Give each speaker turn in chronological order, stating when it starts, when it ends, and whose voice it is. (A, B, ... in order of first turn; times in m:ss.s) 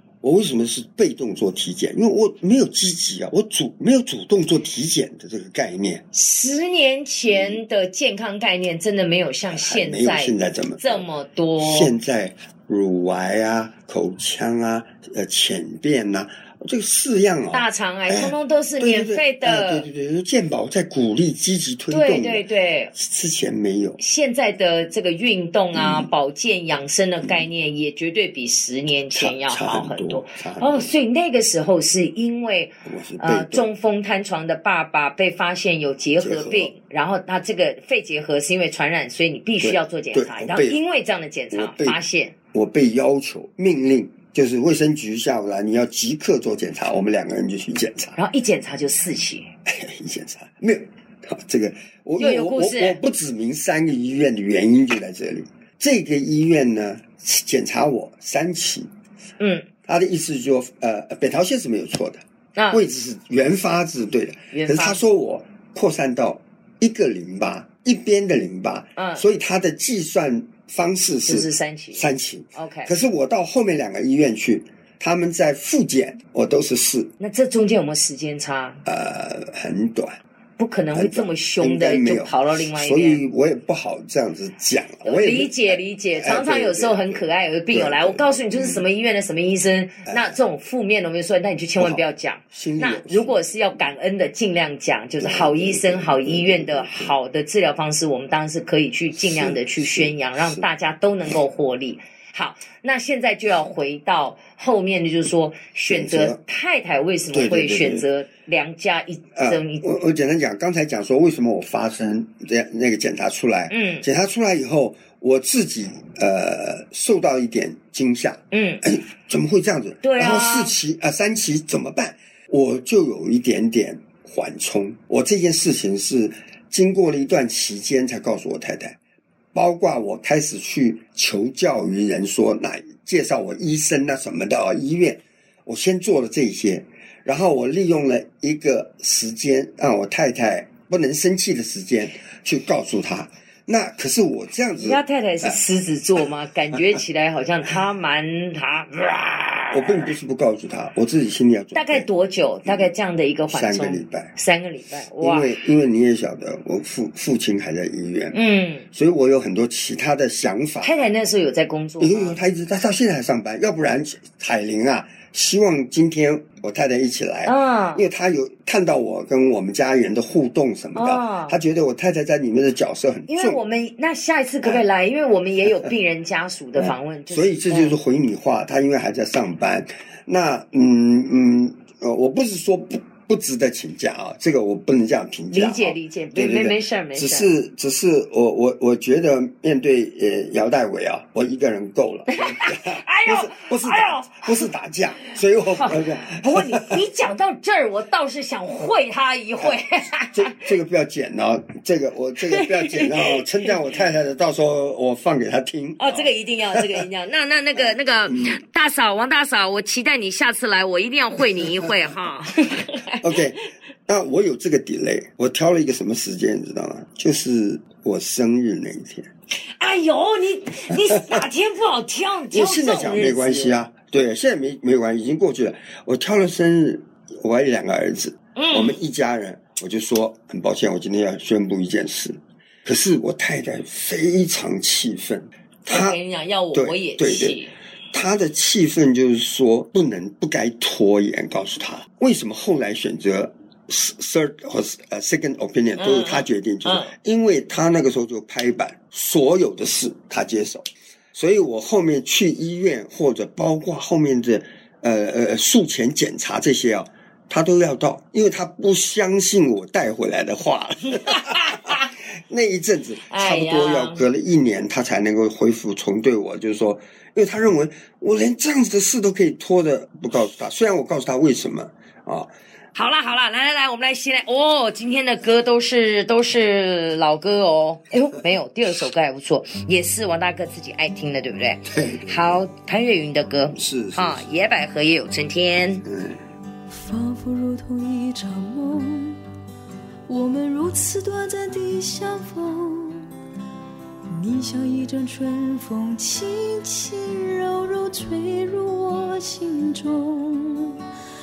0:00.2-0:06.0 A
0:06.1-0:11.9 B
0:07.3-0:07.6 A
0:09.5-0:11.1 A
0:11.6-0:24.0 A
0:17.5-0:19.9 B
0:21.9-0:22.9 B
0:24.0-0:42.4 B
0:25.7-0:26.1 A
0:29.2-0:30.9 A
0:32.8-0:33.7 A
0:36.2-0:36.7 A
0:39.6-0:40.8 A
0:41.5-0:42.0 A
0:42.5-0:48.2 A
0:48.2-0:49.5 B
0:49.7-0:58.9 A
0:52.2-0:53.0 B
0:59.4-0:59.7 B
0:59.9-1:17.1 A
1:02.6-1:02.8 B
1:04.5-1:05.0 B
1:09.0-1:09.2 B
1:11.2-1:12.9 B
1:17.2-1:18.8 B
1:18.8-1:20.2 A
1:20.6-1:23.2 B
1:20.9-1:28.9 A
1:25.0-1:50.0 B
1:30.1-1:30.4 A
1:31.8-1:33.4 A
1:35.2-1:37.2 A
1:39.1-1:40.7 A
1:45.9-1:46.4 A
1:47.3-1:48.1 A
1:49.4-2:09.0 A
1:53.7-1:54.1 B
1:58.5-1:58.8 B
2:00.0-2:00.7 B
2:09.5-2:25.6 A
2:24.7-2:30.1 B
2:29.7-2:32.1 A
2:31.8-2:35.6 B
2:32.7-2:32.9 A
2:33.5-2:34.3 A
2:35.2-2:38.4 A
2:38.3-2:38.9 B
2:38.9-2:41.0 A
2:40.8-2:42.4 B
2:42.0-2:53.6 A
2:47.4-2:48.0 B
2:51.0-2:51.6 B
2:53.3-2:58.0 B
2:56.8-3:17.0 A
3:05.5-3:07.5 B
3:12.3-3:14.7 B
3:15.5-3:20.7 B
3:20.3-3:27.0 A
3:22.5-3:23.7 B
3:26.0-3:33.7 B
3:27.8-3:28.6 A
3:33.2-3:39.3 A
3:39.8-3:43.8 B
3:41.1-3:41.4 A
3:42.5-3:56.2 A
3:48.6-3:49.0 B
3:55.9-3:57.7 B
3:56.7-3:57.6 A
3:58.1-4:32.5 A
4:06.0-4:07.1 B
4:21.2-4:22.1 B
4:23.3-4:24.2 B
4:32.9-4:46.1 B
4:41.9-4:42.6 A
4:43.7-4:44.5 A
4:46.1-4:46.4 A
4:46.9-4:49.4 C
4:50.3-4:53.3 C
4:54.3-5:01.0 C